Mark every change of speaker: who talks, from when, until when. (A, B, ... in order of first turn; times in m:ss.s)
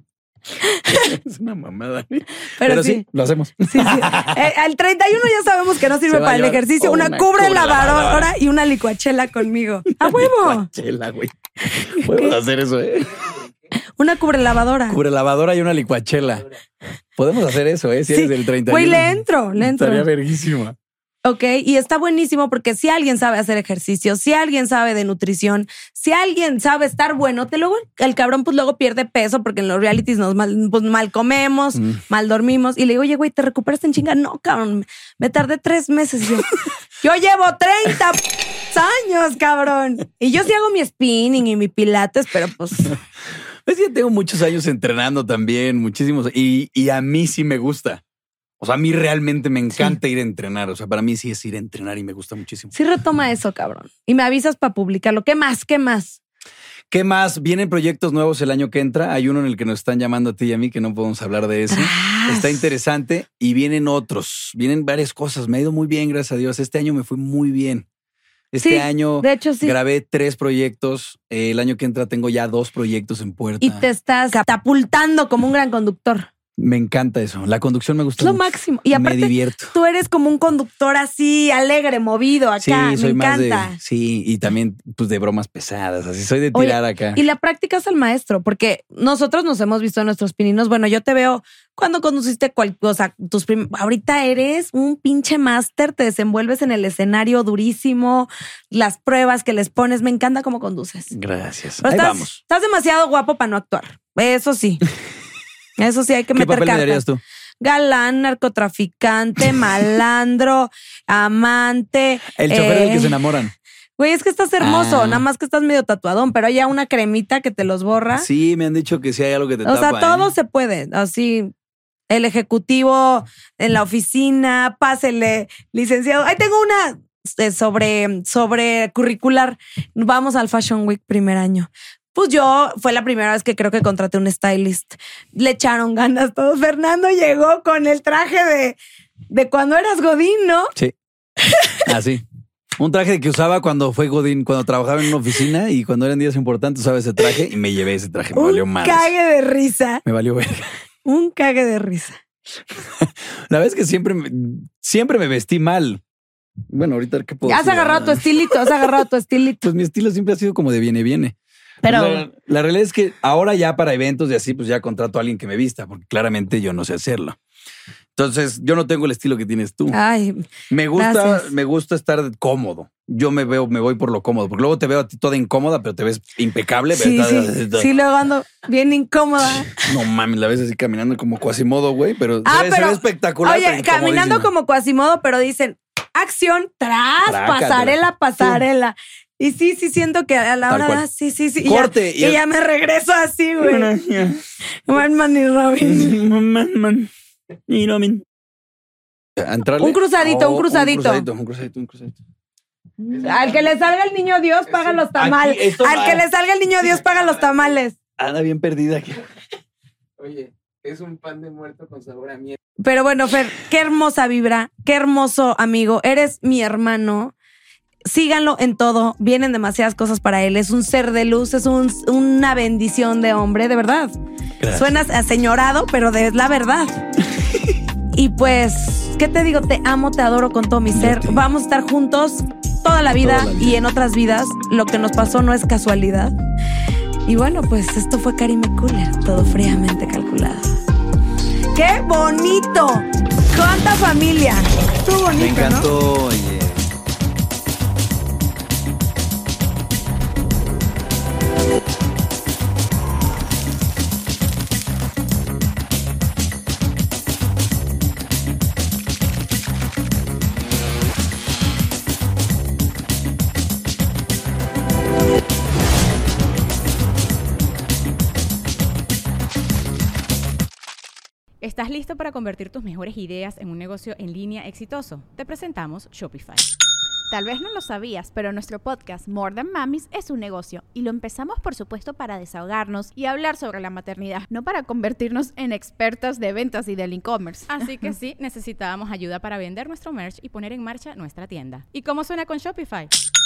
0:00.7-0:01.1 A
0:01.0-0:04.4 B
0:02.6-0:03.0 A
0:03.7-0:10.7 A
0:06.1-0:08.3 B
0:10.0-0:13.2 B
0:12.0-0:12.4 A
0:14.0-0:15.0 A
0:14.9-0:16.4 B
0:17.2-0:20.8 B
0:18.1-0:20.1 A
0:21.2-0:43.0 A
0:43.7-0:48.0 B
0:48.6-0:52.7 B
0:52.7-0:56.2 A
0:56.9-1:07.9 B
1:01.7-1:02.6 A
1:08.5-1:13.9 B
1:08.6-1:09.8 A
1:13.6-1:16.3 A
1:16.6-1:19.8 B
1:18.2-1:23.8 A
1:22.6-1:27.2 B
1:26.5-1:41.1 A
1:41.1-1:42.4 B
1:41.8-1:44.8 A
1:45.8-1:47.0 A
1:46.3-1:47.2 B
1:47.6-1:53.2 A
1:52.4-1:53.5 B
1:54.0-1:58.3 A
1:54.6-1:55.3 B
1:58.2-2:00.3 B
1:59.6-2:01.5 A
2:02.1-2:18.8 A
2:19.3-2:20.7 A
2:21.4-2:21.8 A
2:21.8-2:22.2 B
2:22.8-2:29.1 B
2:28.4-2:30.0 A
2:30.0-2:30.7 B
2:31.0-2:32.2 A
2:32.9-2:36.0 B
2:36.7-2:38.9 B
2:37.4-2:39.7 A
2:39.6-2:47.4 B
2:41.8-2:42.2 A
2:48.2-2:50.0 B
2:49.9-2:50.4 A
2:50.7-2:57.9 B
2:51.0-2:51.5 A
2:56.9-2:59.9 A
2:59.7-3:04.5 B
3:02.4-3:13.9 A
3:07.2-3:08.6 B
3:10.7-3:11.0 B
3:11.6-3:12.4 B
3:13.6-3:14.4 B
3:14.9-3:16.2 A
3:15.8-3:17.1 B
3:17.7-3:18.2 B
3:19.4-3:22.2 B
3:19.8-3:21.2 A
3:23.1-3:23.7 C
3:23.2-3:28.0 A
3:24.7-3:25.0 C
3:25.2-3:26.3 B
3:27.0-3:27.7 C
3:28.2-3:29.2 B
3:30.2-3:32.6 C
3:32.8-3:37.3 A
3:38.0-3:44.1 A
3:44.6-3:45.0 B
3:44.7-3:47.0 A
3:48.1-3:56.4 A
3:50.9-3:51.4 B
3:53.2-3:53.8 B
3:57.3-4:00.7 A
4:01.7-4:05.9 A
4:05.4-4:06.9 B
4:31.6-4:36.7 D
4:37.3-4:48.1 E
4:47.7-4:53.1 D